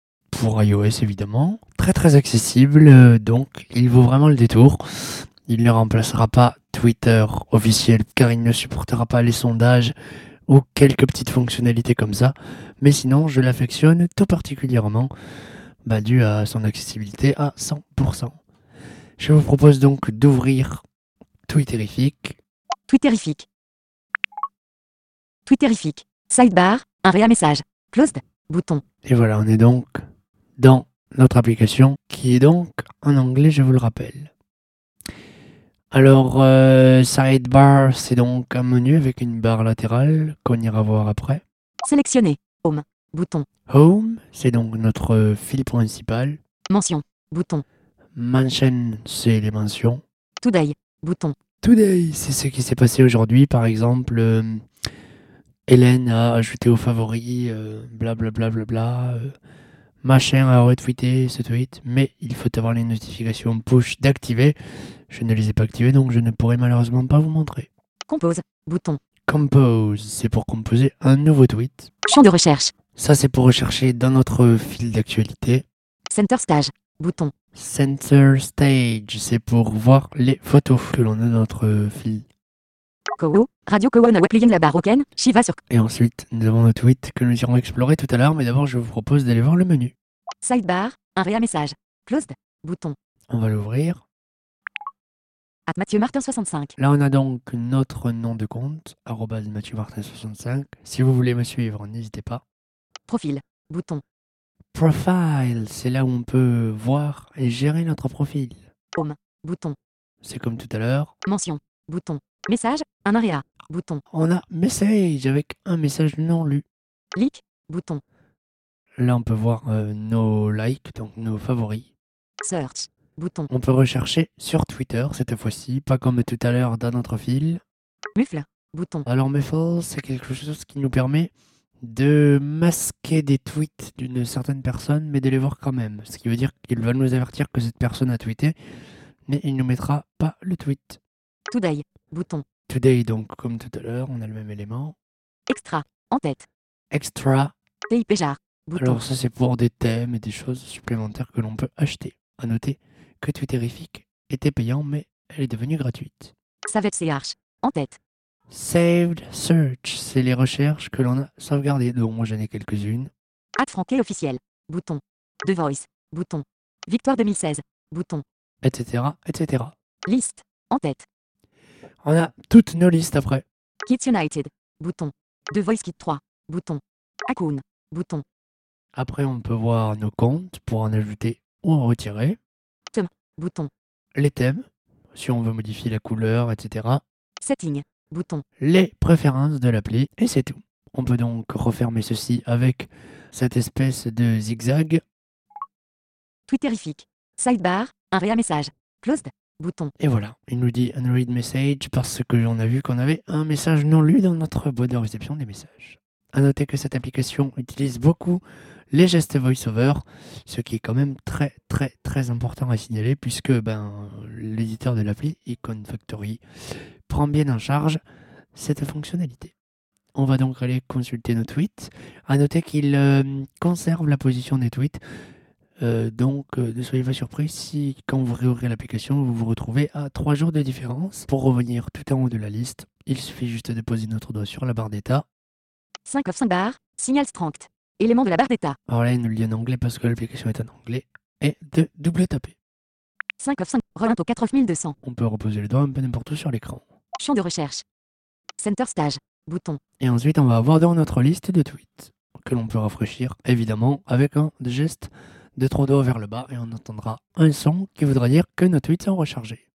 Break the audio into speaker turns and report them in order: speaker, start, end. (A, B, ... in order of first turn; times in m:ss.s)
0:00.3-0:09.9 A
0:10.5-0:15.1 A
0:15.8-0:18.4 A
0:19.2-0:20.8 A
0:21.5-0:22.4 A
0:22.9-0:23.5 B
0:25.4-0:28.8 B
0:29.0-0:30.0 A
0:30.6-0:34.3 A
0:35.9-0:41.4 A
0:41.8-0:43.4 B
0:43.7-0:46.4 A
0:46.7-0:47.6 B
0:48.1-0:50.0 A
0:50.4-0:51.4 B
0:51.6-0:54.6 A
0:55.7-0:59.3 A
1:00.0-1:04.6 A
1:05.1-1:07.7 A
1:08.1-1:09.0 B
1:09.3-1:11.9 A
1:12.0-1:12.7 B
1:12.9-1:15.6 A
1:16.1-1:17.3 B
1:17.5-1:22.2 A
1:23.2-1:25.6 B
1:25.7-1:29.9 A
1:30.4-1:33.0 B
1:33.3-1:34.0 A
1:35.7-1:36.7 B
1:36.8-1:42.4 A
1:43.1-1:44.0 B
1:44.7-1:48.6 A
1:49.0-1:49.8 B
1:50.2-1:51.1 A
1:51.3-1:54.0 B
1:54.1-1:56.6 A
1:57.2-1:58.0 B
1:59.0-2:01.9 A
2:02.4-2:03.5 B
2:03.5-2:07.6 A
2:08.1-2:09.0 B
2:09.0-2:18.5 A
2:19.3-2:21.0 A
2:21.5-2:22.4 B
2:22.7-2:25.0 A
2:25.5-2:26.4 B
2:26.9-2:27.5 A
2:27.9-2:29.0 B
2:28.8-2:36.3 A
2:36.7-2:38.0 B
2:38.5-2:43.1 A
2:43.6-2:48.2 B
2:48.6-2:49.7 A
2:50.1-2:51.1 B
2:52.0-2:53.4 A
2:53.8-2:58.2 B
2:58.9-3:02.4 A
3:02.9-3:03.7 B
3:04.1-3:07.0 A
3:07.4-3:08.4 B
3:08.6-3:15.0 A
3:16.5-3:19.9 B
3:20.0-3:38.0 A
3:38.5-3:39.5 A
3:40.1-3:45.0 A
3:45.8-3:55.2 A
3:56.0-3:58.8 B
3:58.9-4:02.6 A
4:03.4-4:05.0 B
4:05.0-4:06.8 A
4:07.2-4:07.8 B
4:08.6-4:09.8 B
4:10.0-4:19.6 A